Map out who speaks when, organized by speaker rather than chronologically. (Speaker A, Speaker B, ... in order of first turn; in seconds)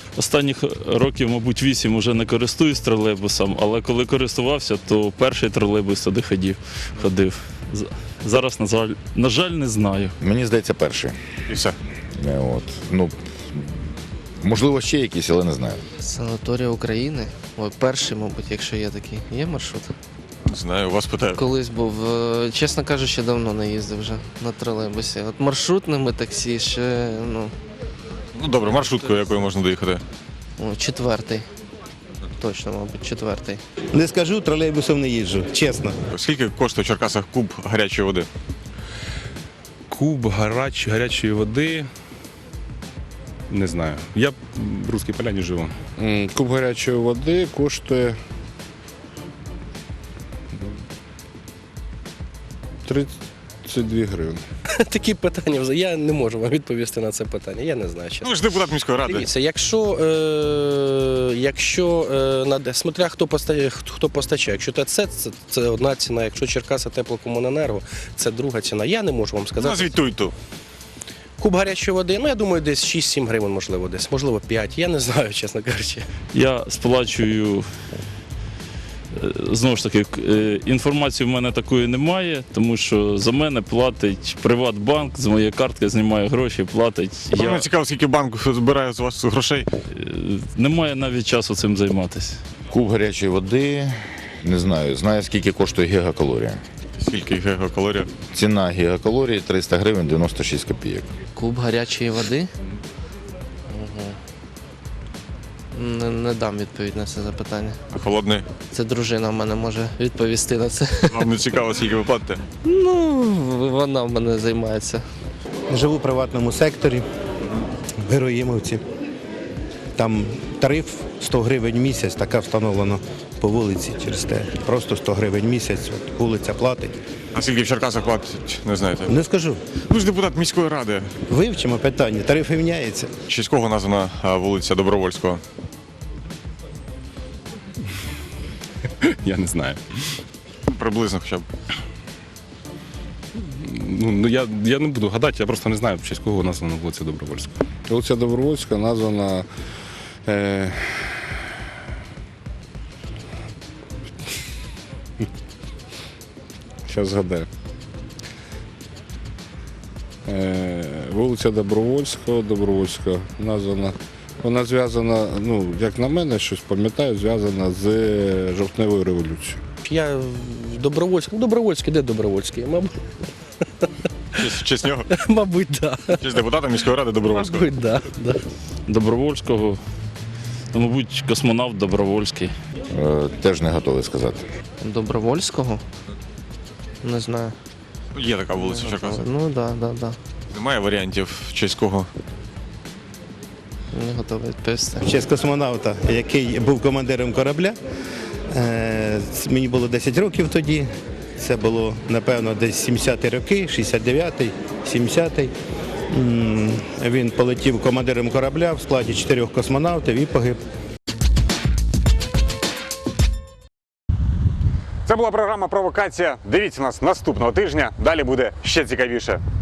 Speaker A: 0.2-10.1, 76.4-77.6, 80.1-87.2, 89.9-92.4, 178.9-179.8, 180.7-182.5
Speaker B: 0.2-4.8, 5.5-7.8, 8.4-8.9, 16.0-19.9, 21.4-27.5, 30.6-31.5, 32.4-33.6, 76.3-77.6, 79.1-87.6, 101.4-102.5, 103.7-104.2, 105.7-107.8, 108.7-111.2, 112.6-115.0, 179.0-179.7, 180.8-181.2, 181.9-182.4, 184.8-185.8, 187.0-187.6, 188.5-190.2, 193.9-195.1
Speaker C: 10.2-11.2, 12.1-13.9, 14.4-15.8, 92.7-96.6, 98.3-101.1, 182.9-184.4
Speaker D: 11.5-11.8, 20.5-21.4, 28.4-30.0, 36.1-38.3, 58.2-59.3, 69.6-70.3, 87.3-89.7, 97.0-98.1, 107.9-108.5, 111.1-112.4, 127.3-129.1, 129.9-131.1, 133.3-135.4, 140.7-141.5, 174.4-175.1, 176.1-177.7, 188.1-189.2, 190.5-192.1, 215.1-219.4
Speaker E: 33.9-36.0, 115.7-117.0, 118.0-118.8, 120.0-127.0, 129.1-129.6, 131.3-133.1, 195.0-197.8, 198.5-205.5, 206.1-210.6
Speaker F: 39.9-41.9, 43.5-45.8, 139.0-139.8, 143.4-147.6
Speaker G: 46.0-48.1, 52.9-53.1, 53.6-54.4, 147.9-149.5, 150.3-151.2, 156.9-157.5, 160.2-169.6
Speaker H: 54.8-70.0, 71.4-76.1, 169.8-173.0, 175.1-176.2, 177.3-178.4